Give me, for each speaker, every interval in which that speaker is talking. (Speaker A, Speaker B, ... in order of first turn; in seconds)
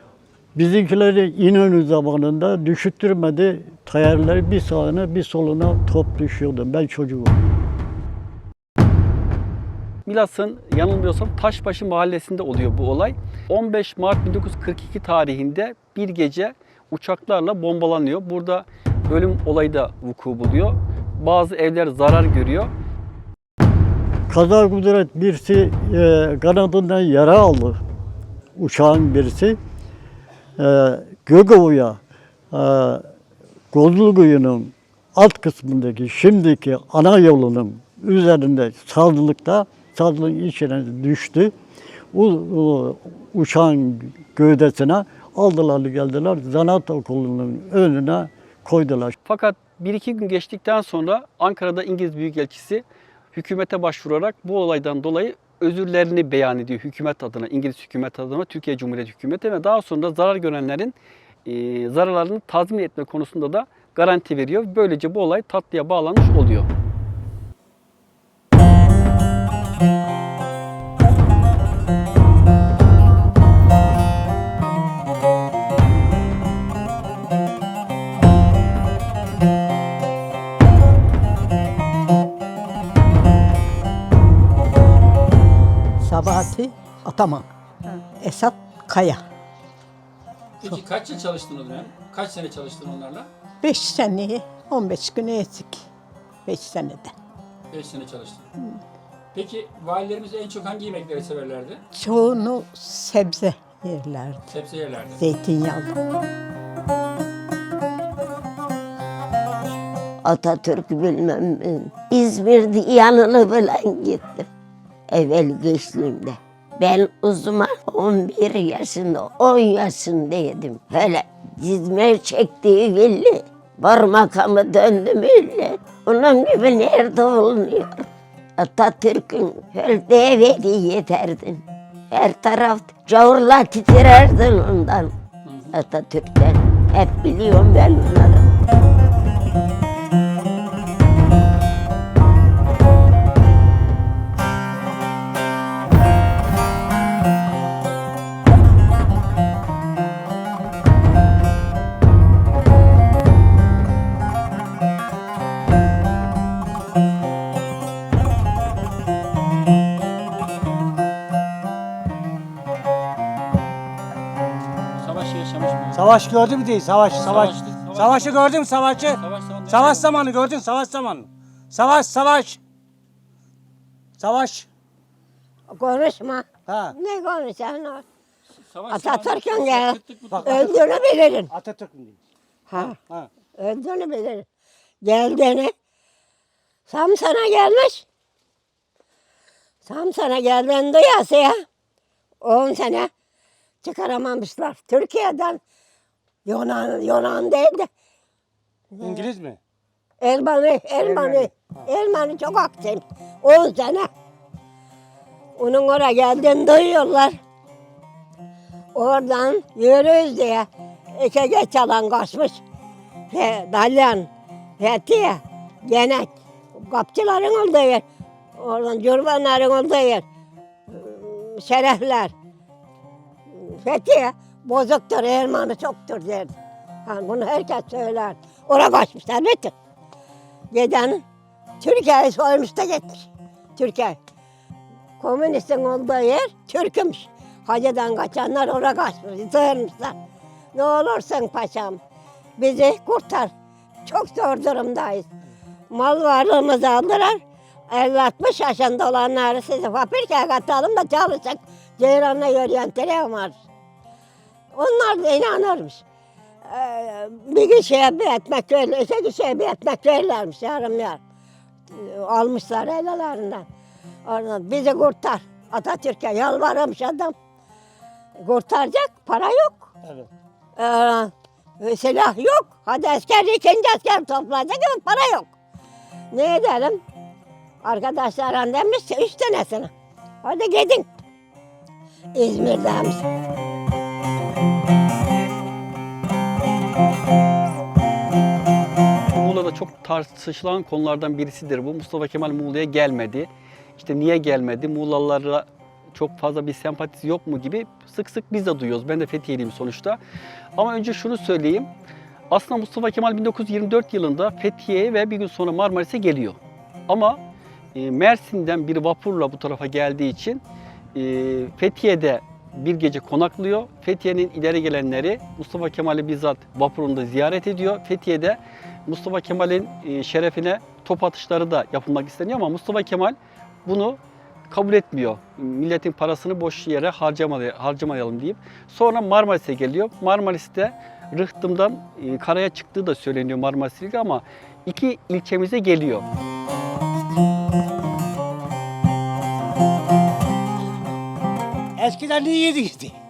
Speaker A: 0.5-7.4, 24.3-27.8, 28.6-29.6, 30.6-33.1, 33.7-41.5, 42.1-49.1
Speaker B: 10.1-22.7, 49.2-66.7, 289.3-300.2, 300.8-301.9, 302.5-307.4, 307.9-310.6, 311.1-336.2
Speaker C: 86.0-87.5, 88.2-89.2, 93.6-95.9, 96.5-97.1, 101.9-104.4, 105.2-105.9
Speaker D: 90.6-93.3, 97.7-98.5, 99.3-101.8, 104.5-105.2, 135.4-135.8, 165.0-166.3, 167.2-168.4, 169.0-170.2, 178.5-180.8
Speaker E: 110.2-114.5, 115.1-128.1, 128.6-135.1, 135.7-138.5
Speaker F: 165.9-172.6, 174.2-174.7, 176.7-176.9, 180.3-180.8, 181.5-182.2, 182.8-183.3, 199.0-199.6, 201.0-201.8, 342.0-343.1
Speaker G: 175.7-178.0, 178.9-181.5, 182.7-183.0, 183.6-184.4, 185.0-185.7, 186.9-188.0, 189.8-191.6, 192.4-193.1, 193.8-195.6, 196.4-197.9, 198.9-199.3, 200.2-204.1, 205.6-207.4, 208.9-212.6, 213.3-218.0, 218.6-220.2, 220.9-222.3, 223.5-226.5, 227.1-229.7, 230.7-231.2, 231.8-234.2, 235.2-240.2, 240.7-242.0, 242.6-243.5, 244.1-245.3, 245.9-253.6, 254.7-256.0, 256.6-261.2, 261.9-263.6, 264.2-267.3, 268.4-269.9, 270.8-275.5, 276.3-277.0, 277.8-279.9, 280.4-281.1, 282.3-283.2